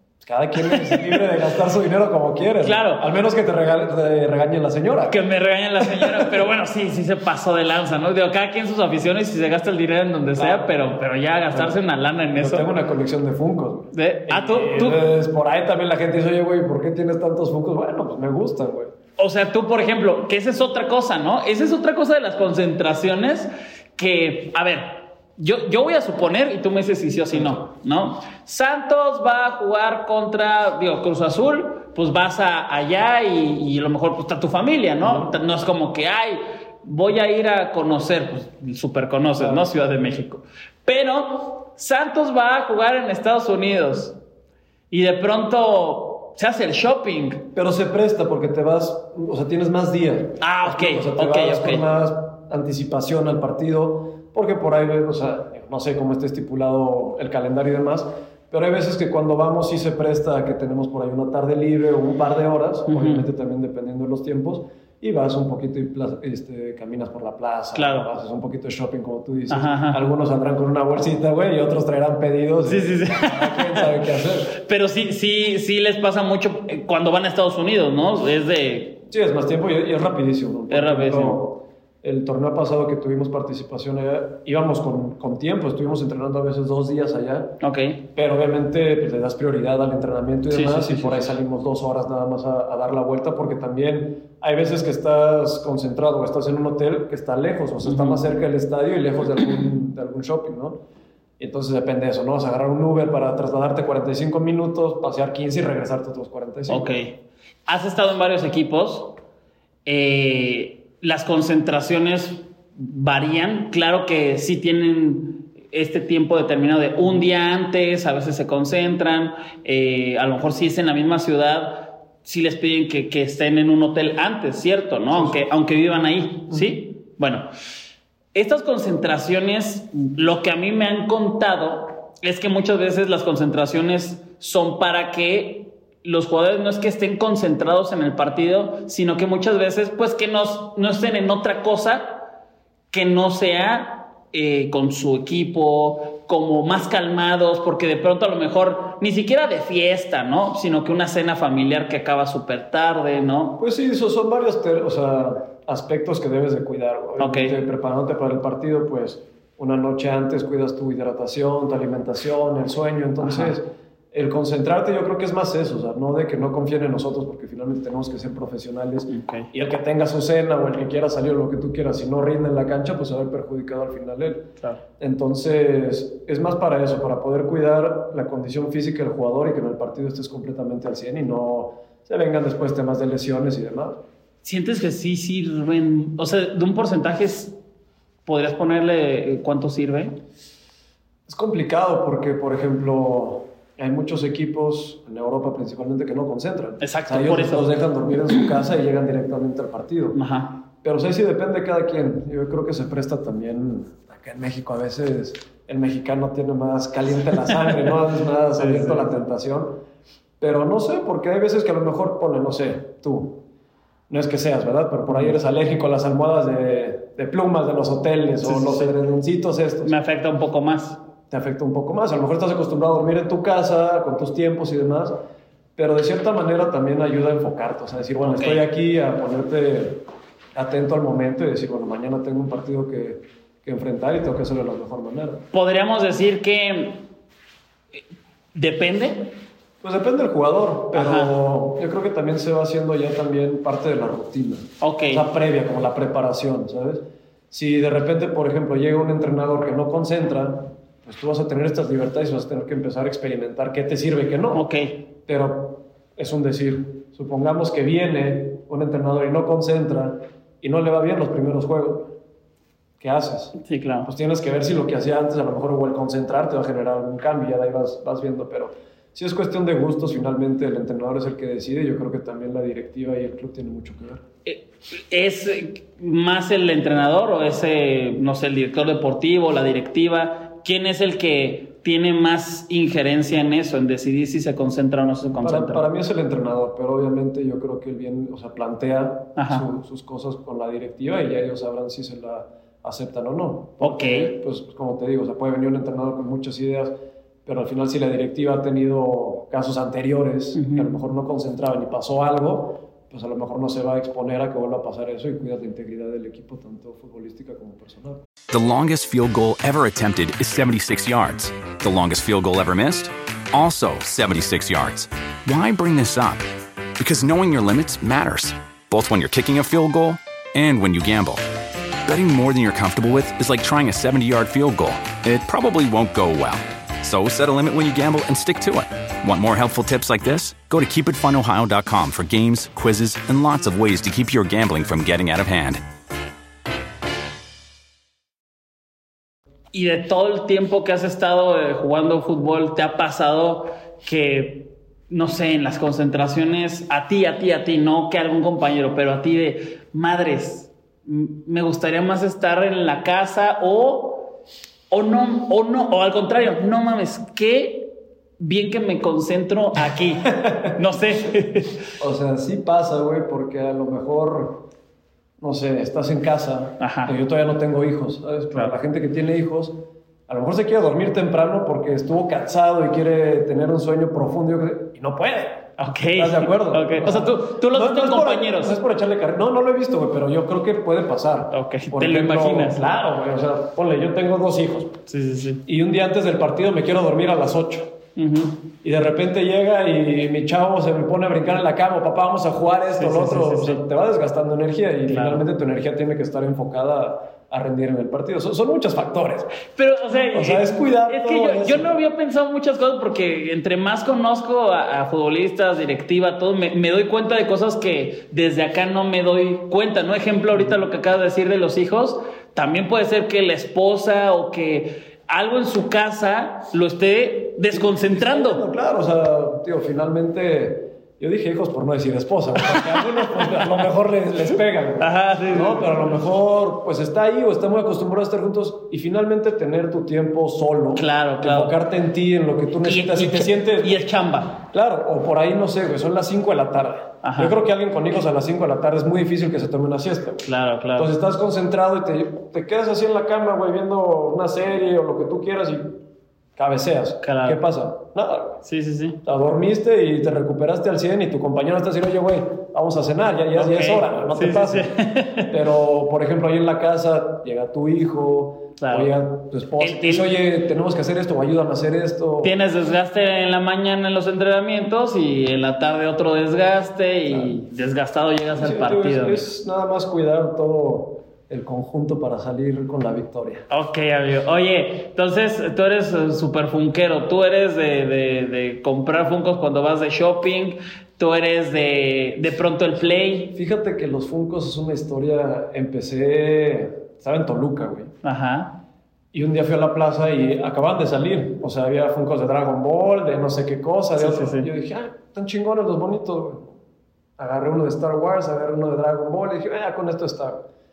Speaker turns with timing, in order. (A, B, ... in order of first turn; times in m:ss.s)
0:00.2-0:05.2 A
0:00.6-0:01.2 B
0:02.6-0:03.0 B
0:05.1-0:12.7 B
0:05.8-0:06.5 A
0:10.4-0:10.7 A
0:11.5-0:11.8 A
0:12.3-0:18.9 A
0:13.9-0:15.0 B
0:19.2-0:44.2 B
0:27.3-0:27.6 A
0:35.0-0:35.3 A
0:39.4-0:39.7 A
0:44.9-0:47.5 B
0:47.5-1:14.6 A
0:50.4-0:51.8 B
1:02.9-1:03.2 B
1:07.7-1:08.1 B
1:09.5-1:10.0 B
1:12.6-1:19.0 B
1:19.1-1:27.6 A
1:20.7-1:21.4 B
1:27.6-1:28.0 B
1:28.1-1:40.8 A
1:30.5-1:31.4 B
1:37.8-1:38.3 B
1:41.4-1:46.9 A
1:46.7-1:49.2 B
1:49.8-2:07.5 B
2:05.1-2:05.4 A
2:06.5-2:06.8 A
2:08.3-2:22.2 B
2:22.9-2:33.6 B
2:33.6-3:04.0 A
2:37.2-2:37.5 B
2:43.2-2:43.5 B
2:49.0-2:49.5 B
3:04.4-3:07.6 B
3:08.2-3:10.2 B
3:11.3-3:20.2 A
3:16.8-3:18.6 B
3:20.1-3:20.6 B
3:20.8-3:29.7 A
3:28.6-3:29.1 B
3:30.4-3:33.4 A
3:34.1-3:39.9 A
3:35.1-3:35.4 B
3:38.4-3:39.0 B
3:39.8-3:41.0 B
3:41.3-3:45.1 A
3:45.8-3:50.0 A
3:48.2-3:48.7 B
3:50.5-3:55.4 A
3:55.5-3:57.1 B
3:58.5-3:59.4 B
3:59.8-4:14.7 A
4:00.9-4:01.4 B
4:04.8-4:05.2 B
4:14.5-4:15.0 B
4:15.2-4:22.1 A
4:23.0-4:34.2 A
4:23.5-4:24.1 B
4:34.4-4:45.8 B
4:45.4-4:56.9 A
4:49.4-4:49.6 B
4:53.8-4:54.3 B
4:57.4-5:08.2 A
5:00.5-5:01.0 B
5:08.5-5:16.4 C
5:17.0-5:21.4 C
5:22.0-5:35.8 C
5:39.7-5:54.4 B
5:54.9-6:01.8 B
6:00.4-6:00.6 A
6:02.0-6:04.6 A
6:05.4-6:25.0 A
6:06.8-6:07.1 B
6:15.8-6:18.7 B
6:21.5-6:22.8 B
6:25.1-6:25.6 B
6:25.6-6:27.9 A
6:28.2-6:28.6 B
6:28.8-6:39.5 A
6:32.9-6:33.8 B
6:35.0-6:35.4 B
6:39.7-6:58.6 B
6:40.3-6:41.9 A
6:57.7-7:14.0 A
7:02.6-7:03.9 B
7:05.0-7:06.0 B
7:10.9-7:11.8 B
7:12.8-7:14.6 B
7:14.6-7:20.4 A
7:17.2-7:17.6 B
7:20.4-7:21.1 B
7:21.0-7:26.0 A
7:26.6-7:28.6 A
7:27.2-7:27.6 B
7:28.6-7:29.2 B
7:29.2-7:42.5 A
7:33.5-7:35.6 B
7:38.8-7:39.1 B
7:39.8-7:40.4 B
7:42.4-7:49.5 B
7:48.6-7:53.6 A
7:53.7-8:03.5 B
8:02.4-8:08.1 A
8:08.2-8:08.8 B
8:09.3-8:16.8 A
8:14.2-8:14.7 B
8:17.4-8:20.6 A